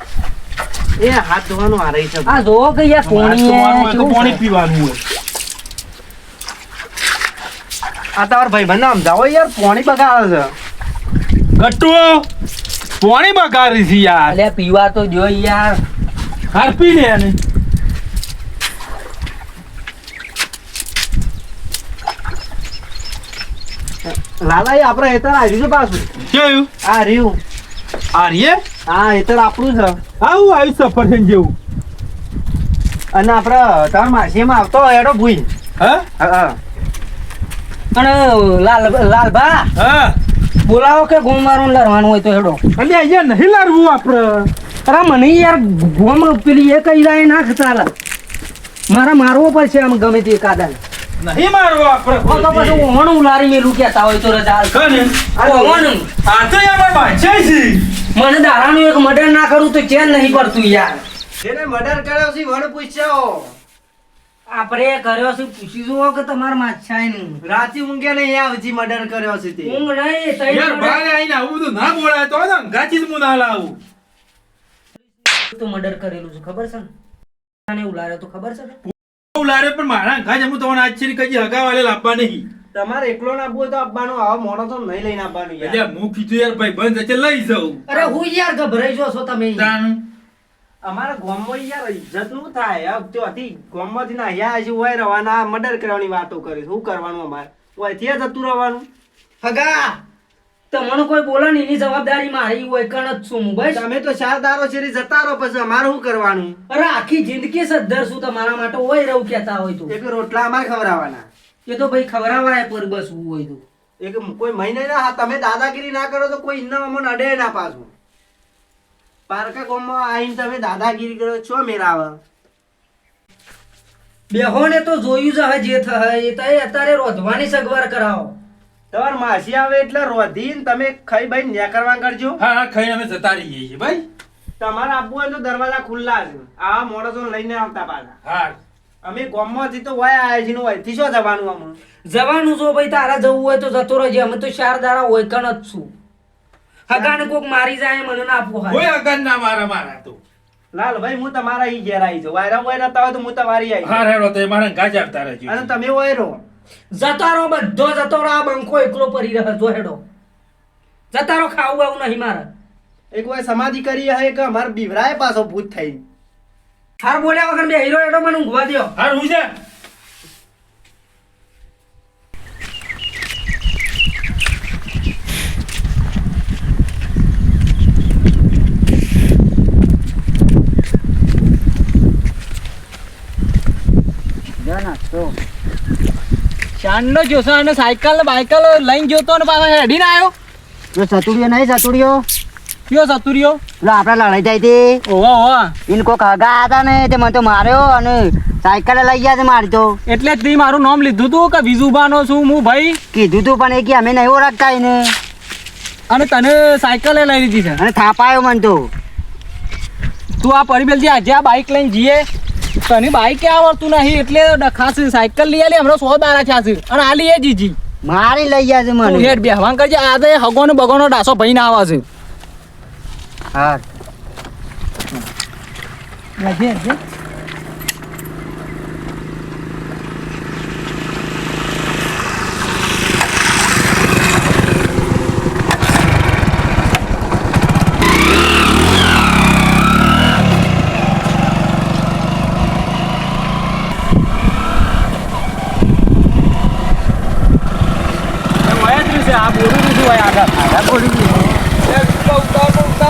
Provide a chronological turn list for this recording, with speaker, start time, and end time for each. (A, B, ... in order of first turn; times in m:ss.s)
0:01.0-0:02.4 A
0:02.3-0:04.4 B
0:03.0-0:05.0 C
0:08.2-0:10.5 A
0:11.6-0:12.2 C
0:13.0-0:14.4 C
0:14.3-0:15.8 B
0:16.5-0:17.4 C
0:24.0-0:26.1 A
0:26.3-0:26.7 C
0:26.8-0:27.4 A
0:28.1-0:28.6 C
0:28.9-0:30.0 A
0:30.2-0:31.5 C
0:33.1-0:35.5 A
0:35.8-0:36.1 C
0:36.2-0:36.6 A
0:37.9-0:39.7 B
0:39.8-0:40.1 C
0:40.6-0:42.6 B
0:42.8-0:44.5 C
0:44.9-0:47.9 B
0:48.9-0:50.8 B
0:51.2-0:52.9 C
0:52.2-0:54.8 B
0:54.7-0:55.2 C
0:55.4-0:55.9 A
0:55.4-0:56.1 B
0:56.2-0:57.8 C
0:58.1-1:01.0 B
1:01.4-1:03.5 A
1:04.5-1:07.4 B
1:07.4-1:09.8 A
1:09.6-1:11.0 B
1:10.5-1:13.8 C
1:15.5-1:16.9 B
1:17.7-1:18.8 B
1:18.8-1:22.4 C
1:22.7-1:25.8 A
1:25.6-1:28.1 C
1:27.9-1:29.7 B
1:29.5-1:30.0 C
1:30.8-1:38.9 A
1:39.4-1:39.9 B
1:40.7-1:43.8 B
1:43.7-1:46.6 A
1:46.7-1:49.9 B
1:49.9-1:51.2 A
1:51.6-1:53.6 B
1:54.0-1:57.9 A
1:59.3-2:02.2 A
2:04.3-2:08.3 B
2:08.9-2:12.4 A
2:12.4-2:14.0 C
2:14.6-2:18.1 A
2:18.2-2:18.6 C
2:19.0-2:21.8 A
2:22.1-2:25.9 B
2:26.9-2:28.8 B
2:26.9-2:27.2 A
2:28.7-2:30.2 C
2:30.7-2:34.1 A
2:33.8-2:35.7 C
2:35.4-2:36.4 A
2:36.9-2:40.0 B
2:41.1-2:42.5 B
2:43.1-2:46.0 A
2:47.0-2:48.9 B
2:49.0-2:49.5 C
3:04.6-3:05.3 D
3:06.8-3:10.3 E
3:10.9-3:12.2 D
3:12.9-3:13.6 E
3:13.8-3:15.0 D
3:15.1-3:15.7 E
3:15.9-3:20.0 D
3:20.0-3:23.0 E
3:23.1-3:25.2 D
3:26.1-3:27.8 E
3:27.8-3:28.9 D
3:30.4-3:32.3 E
3:32.9-3:37.8 E
3:38.0-3:39.4 D
3:39.0-3:42.0 E
3:43.5-3:43.8 D
3:46.4-3:47.0 E
4:08.6-4:10.6 E
4:10.6-4:11.4 D